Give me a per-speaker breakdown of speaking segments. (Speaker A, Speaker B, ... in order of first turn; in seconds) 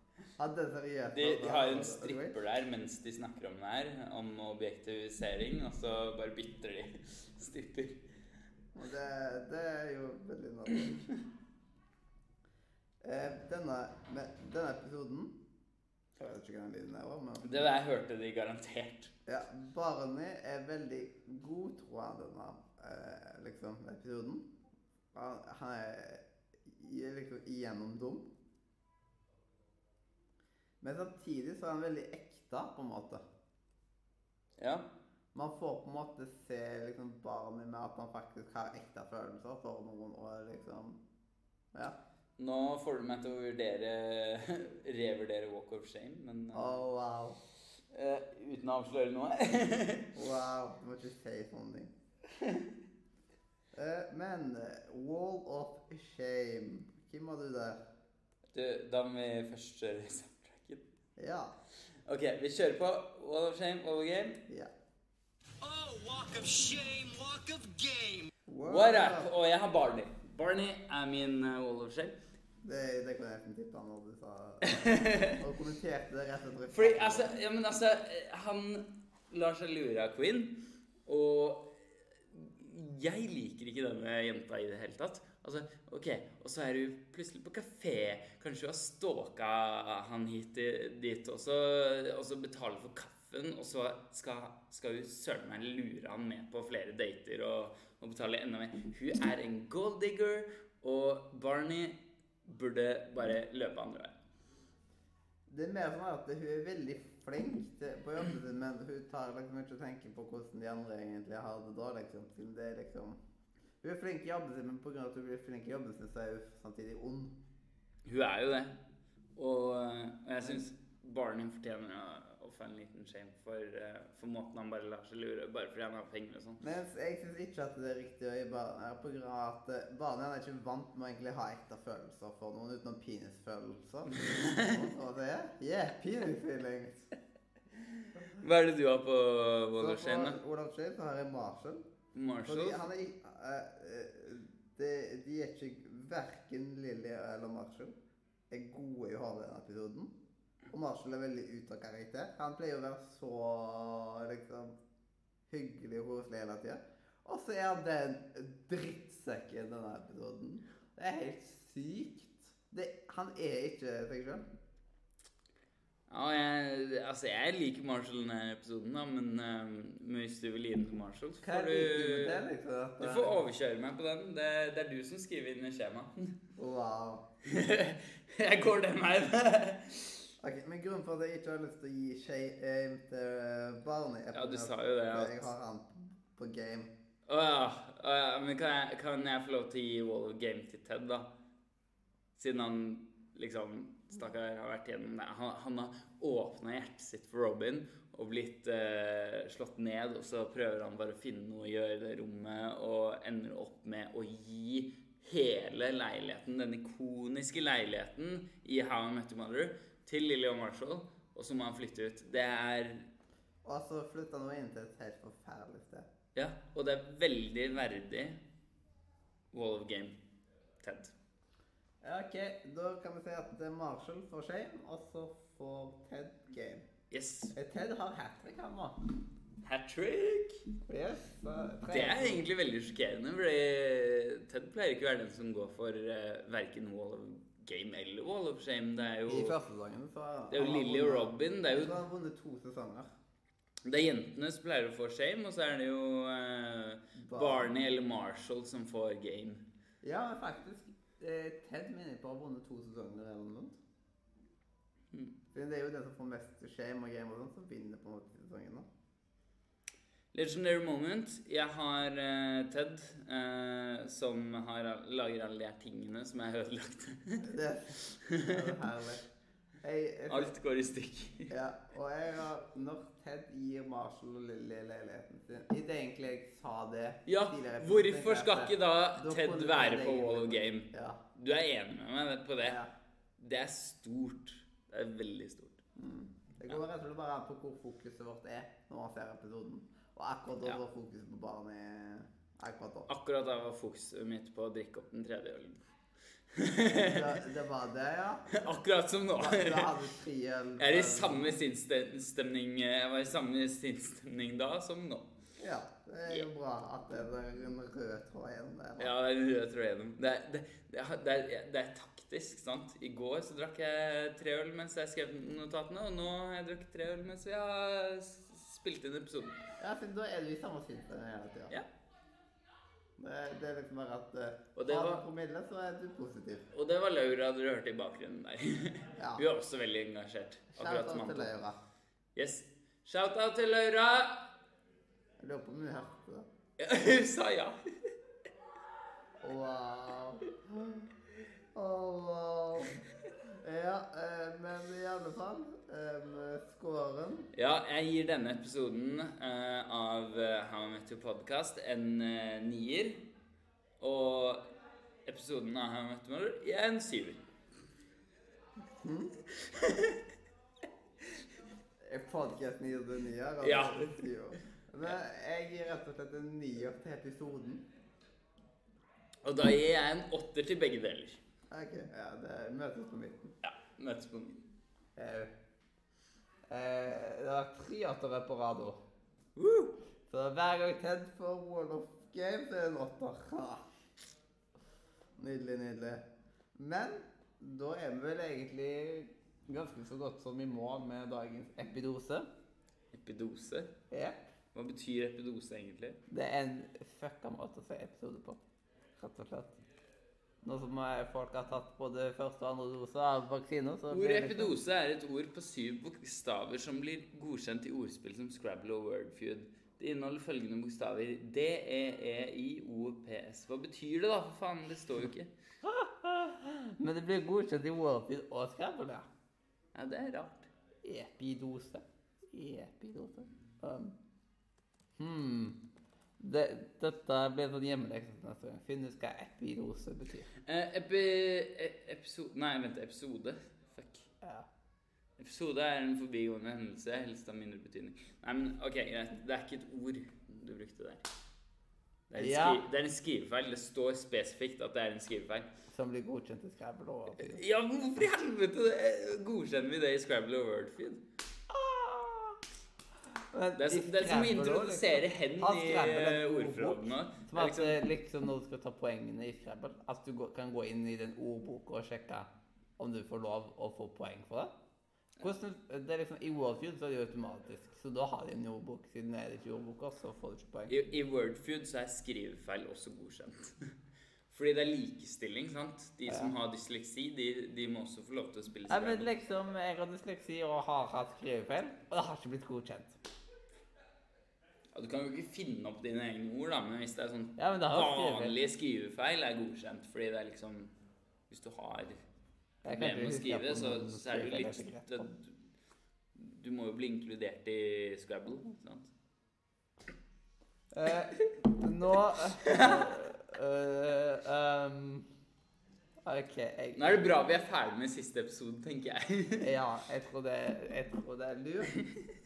Speaker A: 0.4-2.4, 8.7-11.0, 13.0-15.4, 16.2-17.8, 19.2-24.5, 25.1-28.3, 30.8-33.2, 35.3-41.0, 46.5-47.4, 50.1-51.9, 53.7-57.8, 61.2-61.5, 68.5-69.3, 72.6-77.3, 105.5-113.2, 113.8-117.3, 126.6-137.1, 139.8-141.8, 142.4-147.9, 148.5-150.1, 150.7-154.7, 155.5-164.4, 171.4-173.4, 176.6-177.2, 180.4-186.9, 213.6-216.1, 222.0-226.8, 227.5-229.0, 230.9-232.5, 239.3-243.1, 247.2-247.7, 250.0-253.8, 255.5-258.9, 267.4-269.2, 269.8-270.5, 271.5-281.2, 282.6-282.9, 286.0-293.1, 296.9-298.7, 299.4-301.6, 305.6-309.1, 319.8-321.8, 323.2-326.7, 329.2-329.4, 330.8-331.8, 335.4-336.4, 339.4-341.0, 341.7-343.0, 343.6-347.5, 359.0-359.4, 362.0-367.8, 371.7-373.5, 375.1-375.5, 376.7-379.0, 380.3-383.8, 385.4-386.2, 386.8-392.5, 394.1-394.4, 396.3-398.6, 399.2-399.8, 400.6-404.8, 415.8-419.3, 421.0-424.1, 425.2-425.8, 426.4-430.5, 442.3-442.8, 445.9-447.6, 451.7-452.6, 453.5-464.7, 465.4-470.9, 476.3-476.5, 478.9-483.1, 487.6-488.6, 492.8-495.3, 500.9-505.2, 506.2-507.4, 509.6-511.9
Speaker B: 1.1-8.1, 17.4-19.1, 34.6-34.9, 42.4-46.8, 47.9-50.2, 52.4-52.7, 58.5-60.9, 61.8-64.4, 68.7-72.2, 74.7-75.4, 76.7-104.1, 118.0-118.8, 119.3-126.6, 134.1-134.8, 137.9-140.4, 142.1-142.8, 166.1-172.4, 173.0-176.4, 177.4-180.3, 184.3-185.5, 187.2-191.3, 192.3-213.1, 216.3-218.4, 219.5-220.2, 220.8-221.1, 227.1-227.5, 229.6-230.6, 231.9-239.6, 240.5-242.0, 243.8-249.6, 260.3-267.5, 268.1-268.7, 270.3-271.5, 277.2-282.8, 283.4-285.8, 293.1-295.9, 296.5-297.4, 298.5-299.9, 300.8-305.3, 309.0-319.6, 324.7-325.2, 326.7-331.5, 332.3-334.5, 336.8-337.8, 347.5-353.3, 354.0-354.6, 355.2-357.4, 359.6-360.2, 363.6-364.3, 369.4-371.4, 373.6-374.6, 379.6-379.9, 393.1-393.9, 394.7-396.2, 404.1-415.5, 419.9-420.7, 430.6-434.3, 435.4-441.2, 442.3-445.7, 447.4-451.2, 453.8-458.1, 470.9-473.8, 474.5-479.3, 484.9-490.9, 491.5-492.2, 492.9-495.6, 496.3-499.1, 502.6-503.1, 506.9-509.7
Speaker C: 65.6-68.2